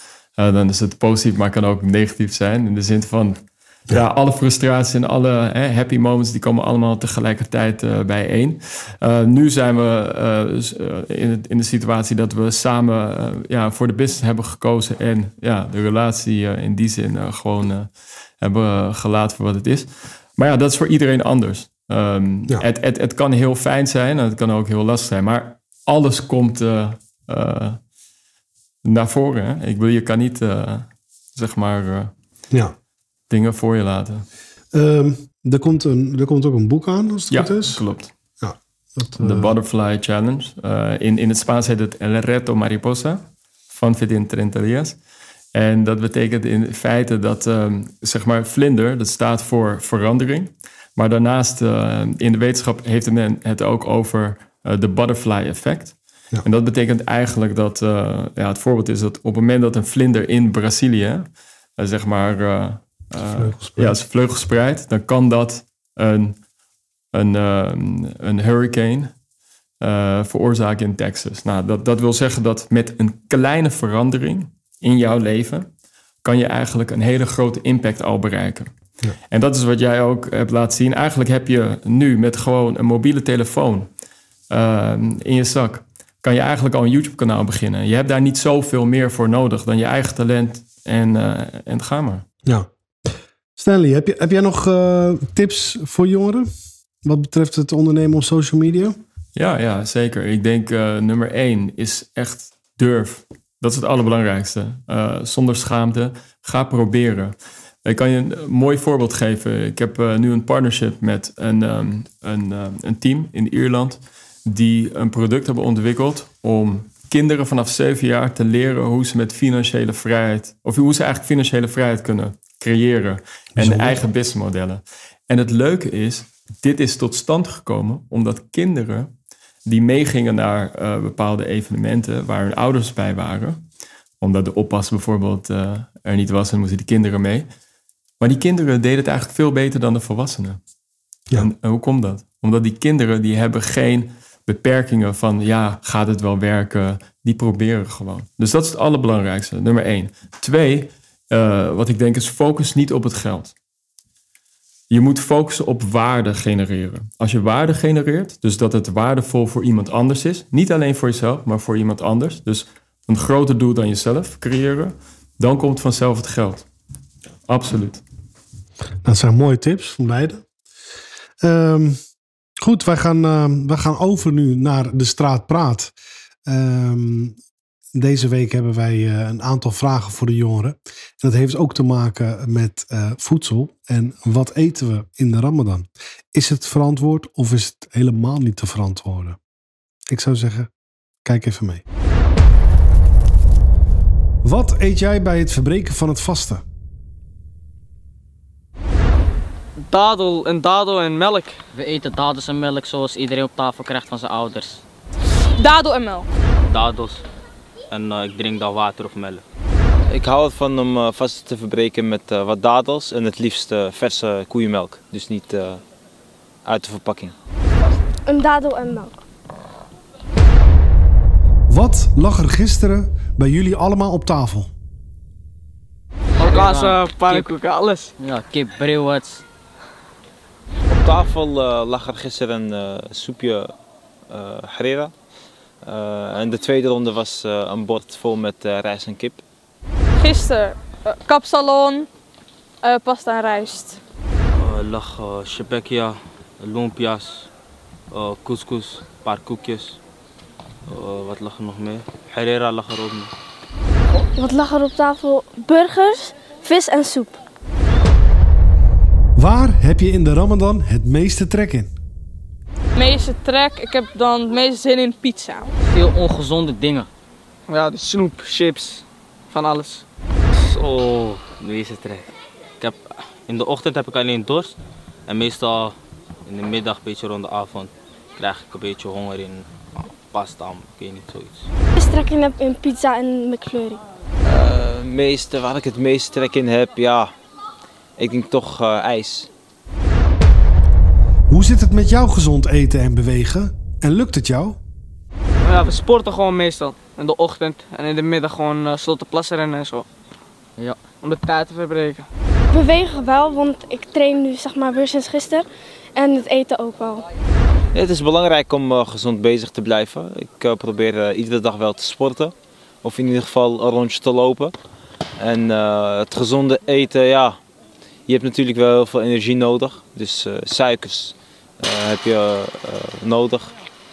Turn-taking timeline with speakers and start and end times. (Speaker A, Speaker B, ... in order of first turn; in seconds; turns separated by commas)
Speaker A: 0.4-27.8, Speaker A: 28.8-32.1, Speaker A: 33.3-34.3, Speaker B: 34.7-37.8, Speaker A: 37.3-38.1, Speaker B: 38.4-39.5, Speaker A: 39.2-45.0, Speaker A: 45.5-66.4, Speaker B: 63.3-64.0, Speaker A: 67.1-69.2, Speaker A: 69.8-75.7, Speaker A: 76.2-78.7, Speaker A: 79.3-83.9, Speaker A: 84.5-92.3, Speaker B: 92.5-96.5, Speaker B: 97.0-99.0, Speaker A: 99.4-129.1, Speaker B: 123.6-124.0, Speaker A: 129.6-133.6, Speaker A: 134.2-137.5, Speaker A: 138.2-140.6, Speaker A: 141.3-153.6, Speaker A: 154.9-166.7, Speaker A: 167.5-168.0, Speaker B: 169.0-170.4, Speaker B: 171.4-172.0, Speaker B: 172.6-175.9, Speaker B: 176.5-177.4, Speaker B: 177.9-189.4, Speaker B: 190.1-190.7, Speaker B: 191.2-191.8, Speaker B: 194.4-196.6, Speaker C: 199.9-201.6, Speaker D: 201.7-204.8, Speaker E: 205.6-206.3, Speaker F: 206.7-207.2, Speaker F: 207.9-209.4, Speaker G: 210.1-215.8, Speaker G: 216.6-217.3, Speaker E: 218.3-219.2, Speaker B: 221.7-224.7, Speaker C: 226.4-228.1, Speaker D: 226.4-227.5, Speaker D: 228.2-229.4, Speaker G: 230.9-233.7, Speaker G: 234.3-235.1, Speaker G: 235.8-239.4, Speaker E: 240.2-242.1, Speaker E: 242.8-244.0, Speaker F: 244.6-247.5, Speaker F: 248.1-250.0, Speaker F: 250.9-253.3, Speaker E: 254.4-257.4, Speaker B: 259.4-261.9, Speaker E: 262.9-265.7, Speaker D: 265.8-267.1, Speaker C: 267.7-270.0, Speaker F: 270.6-274.8, Speaker F: 275.3-275.9, Speaker F: 276.5-281.7, Speaker E: 281.9-284.0, Speaker G: 284.4-287.3, Speaker G: 288.2-289.5, Speaker B: 291.5-294.8, Speaker C: 295.6-300.1, Speaker D: 300.8-301.1, Speaker C: 301.1-302.3, Speaker E: 302.7-307.2, Speaker G: 307.9-314.7, Speaker G: 315.4-317.6, Speaker G: 318.3-323.7